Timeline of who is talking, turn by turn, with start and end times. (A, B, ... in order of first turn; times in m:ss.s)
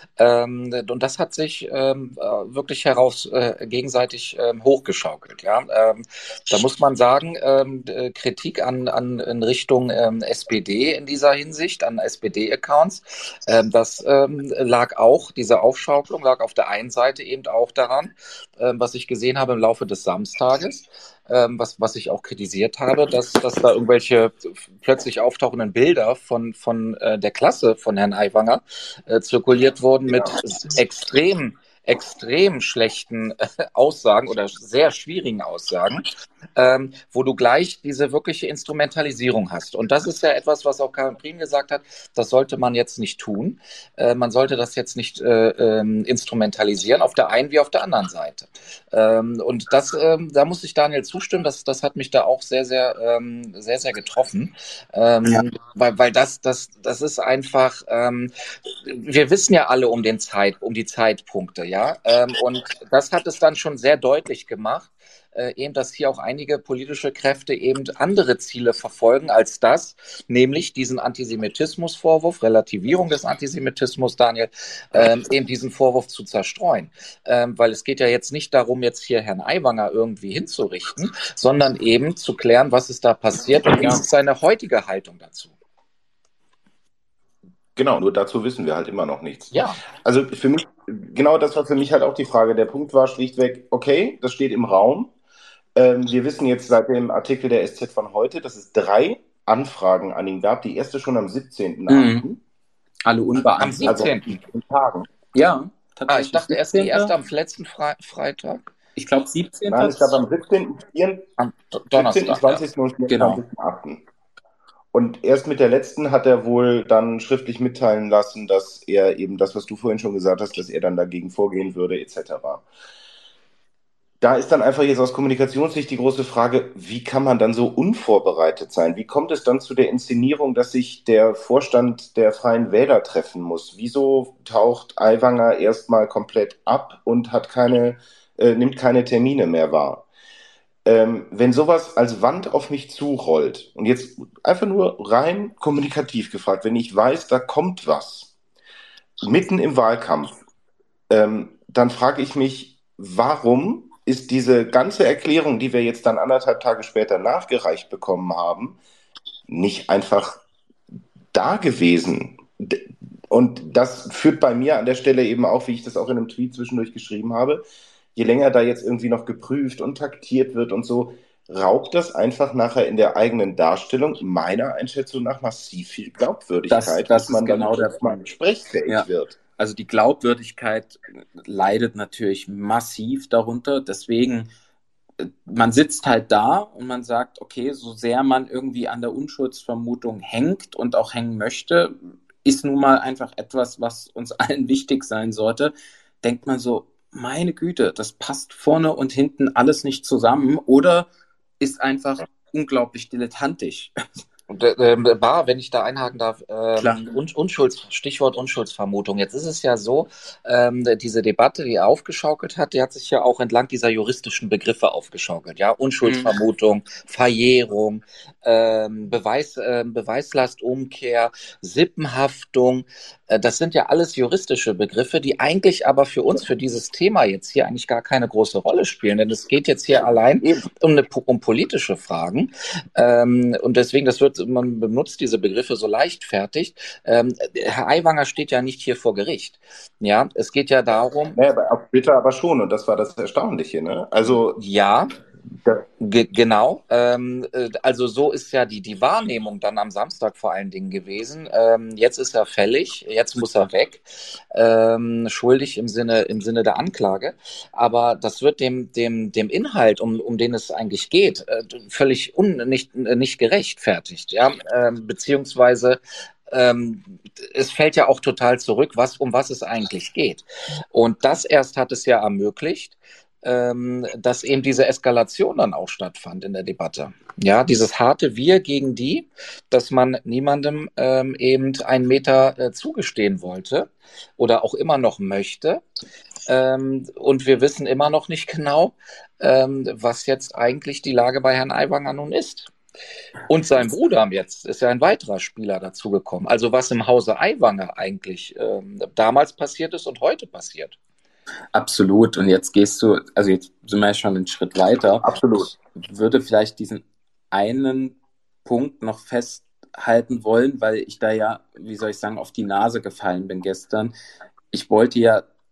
0:00.2-1:25.5 A
1:27.8-1:35.1 B
1:29.5-1:29.8 A
1:35.8-1:42.4 B
1:41.9-1:42.3 C
1:43.1-1:44.1 C
1:43.6-1:44.3 A
1:43.9-1:45.1 B
1:45.3-1:47.1 C
1:46.1-1:48.6 A
1:49.0-1:50.2 C
1:49.7-1:51.3 B
1:51.4-1:52.6 A
1:51.9-1:54.0 B
1:53.1-1:53.4 C
1:54.9-2:02.6 B
2:04.2-2:20.1 B
2:20.8-2:28.3 B
2:29.2-2:30.4 B
2:31.1-2:38.8 B
2:39.5-2:40.4 B
2:41.3-2:47.6 B
2:48.2-2:59.4 B
2:56.7-2:58.3 C
2:58.9-3:04.5 C
3:05.2-3:21.1 C
3:21.6-3:23.9 C
3:24.5-4:01.4 A
3:26.8-3:27.2 C
3:36.0-3:36.3 C
3:50.4-3:50.7 B
4:01.4-4:04.6 B
4:04.3-4:05.1 A
4:06.0-4:45.8 A
4:46.5-4:52.7 A
4:53.5-5:01.0 A
5:01.7-5:05.3 C
5:05.2-5:05.7 B
5:05.9-5:14.1 C
5:14.7-5:15.4 C